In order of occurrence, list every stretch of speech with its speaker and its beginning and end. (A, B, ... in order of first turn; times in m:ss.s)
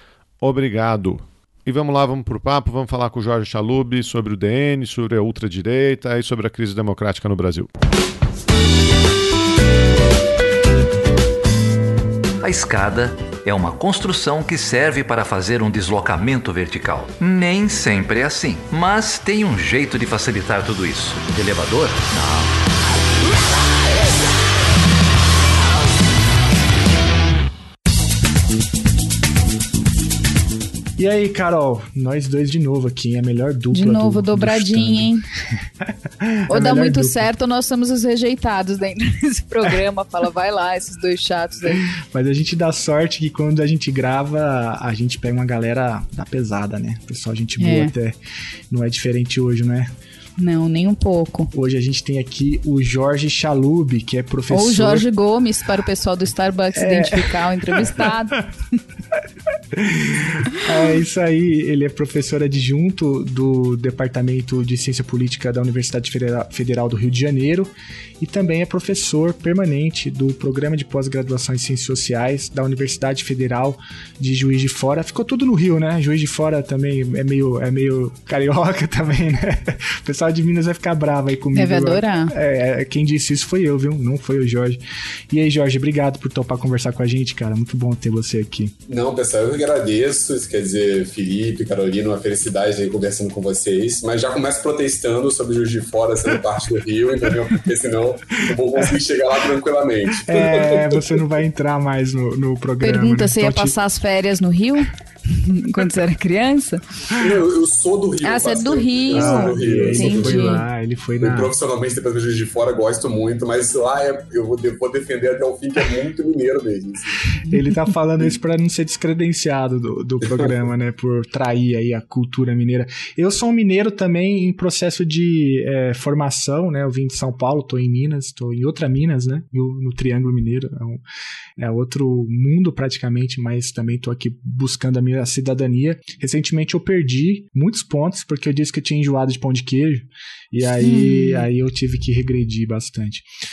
0:00.4-0:07.7 A
0:12.4-0:22.5 B
0:31.0-0:35.1 C
0:33.7-0:35.2 D
0:35.8-0:37.3 C
0:36.5-0:41.8 D
0:41.7-0:48.2 C
0:47.6-0:47.9 D
0:48.7-0:49.9 C
0:50.4-0:51.5 D
0:51.5-0:55.0 C
0:54.5-0:58.5 D
0:56.7-0:58.1 C
0:59.7-1:28.7 C
1:21.5-1:22.3 D
1:28.9-1:41.2 E
1:38.4-1:38.9 C
1:40.1-1:43.8 C
1:42.8-1:46.8 D
1:47.1-1:50.6 E
1:48.2-1:50.6 D
1:49.1-1:51.6 C
1:51.2-1:57.4 E
1:57.5-2:11.0 C
2:00.2-2:00.5 E
2:11.6-2:23.2 C
2:20.8-2:21.4 D